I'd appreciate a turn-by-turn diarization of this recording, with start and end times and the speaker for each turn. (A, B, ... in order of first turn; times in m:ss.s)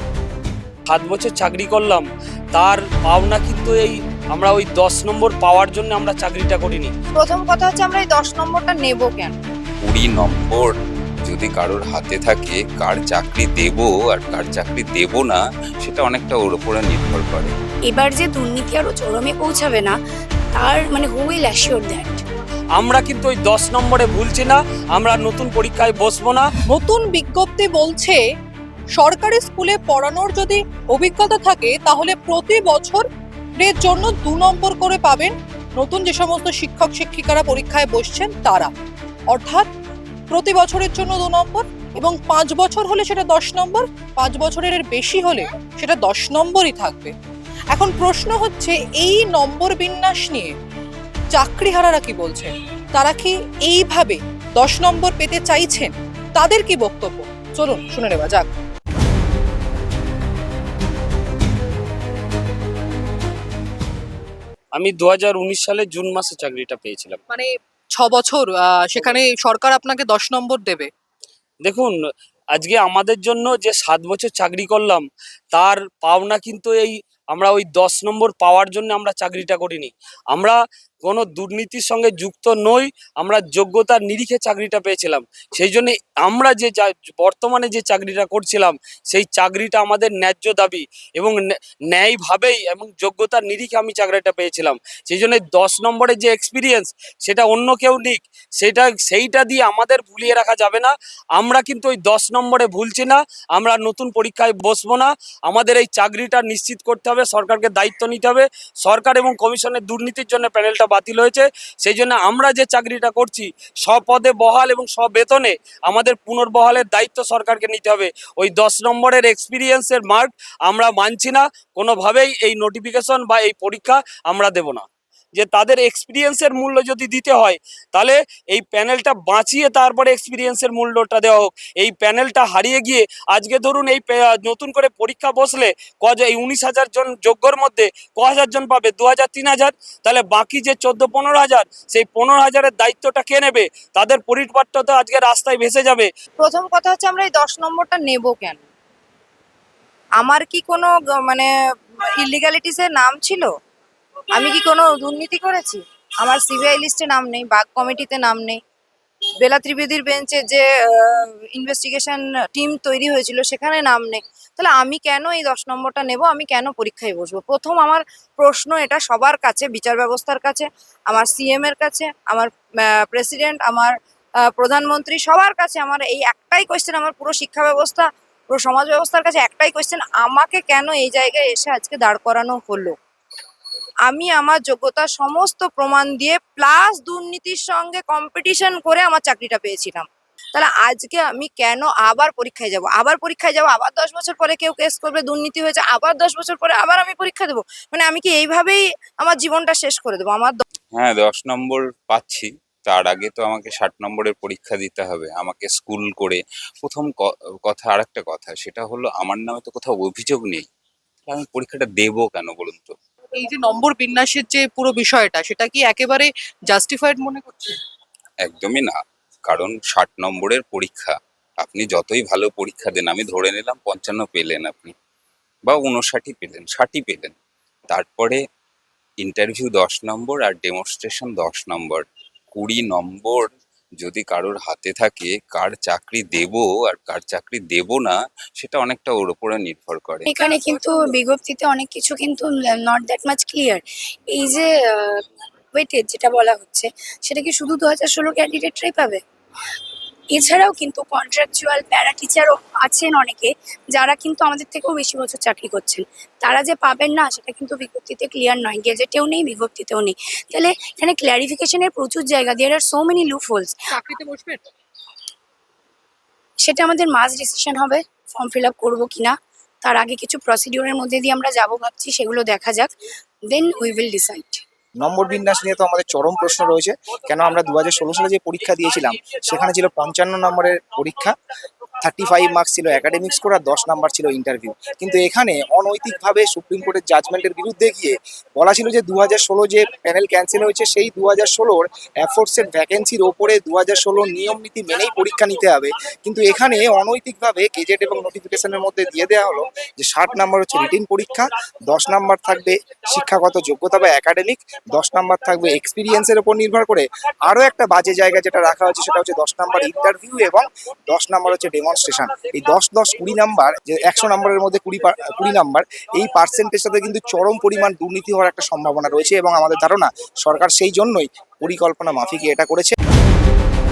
0:00.9-0:06.9 A
0:07.2-0:09.4 B
0:09.8-0:17.5 C
0:17.9-0:20.0 D
0:20.5-0:22.2 D
0:22.8-0:26.5 A
0:26.7-0:28.2 E
0:29.0-0:33.0 E
0:33.6-0:38.7 E
0:39.3-0:39.7 E
0:40.3-0:47.1 E
0:47.7-0:50.5 E
0:51.3-0:58.5 E
1:04.8-1:07.2 A
1:07.3-1:10.9 E
1:11.6-1:12.0 A
1:12.6-1:31.4 A
1:31.9-2:26.1 A
2:26.4-2:28.6 B
2:30.2-2:31.5 B
2:32.2-2:33.5 B
2:34.4-2:38.6 B
2:39.4-2:53.9 B
2:54.5-3:03.0 B
3:04.1-3:20.6 B
3:20.9-3:30.7 C
3:31.3-3:33.0 C
3:33.4-3:37.7 E
3:38.4-3:44.9 C
3:45.7-3:47.4 C
3:47.9-3:48.4 C
3:49.2-4:00.3 C
4:00.3-4:05.2 D
4:05.8-4:09.2 D
4:10.3-4:23.8 D
4:23.9-4:24.6 E
4:26.6-4:32.9 D
4:33.5-4:34.6 D
4:35.0-4:41.3 F
4:42.0-5:22.9 F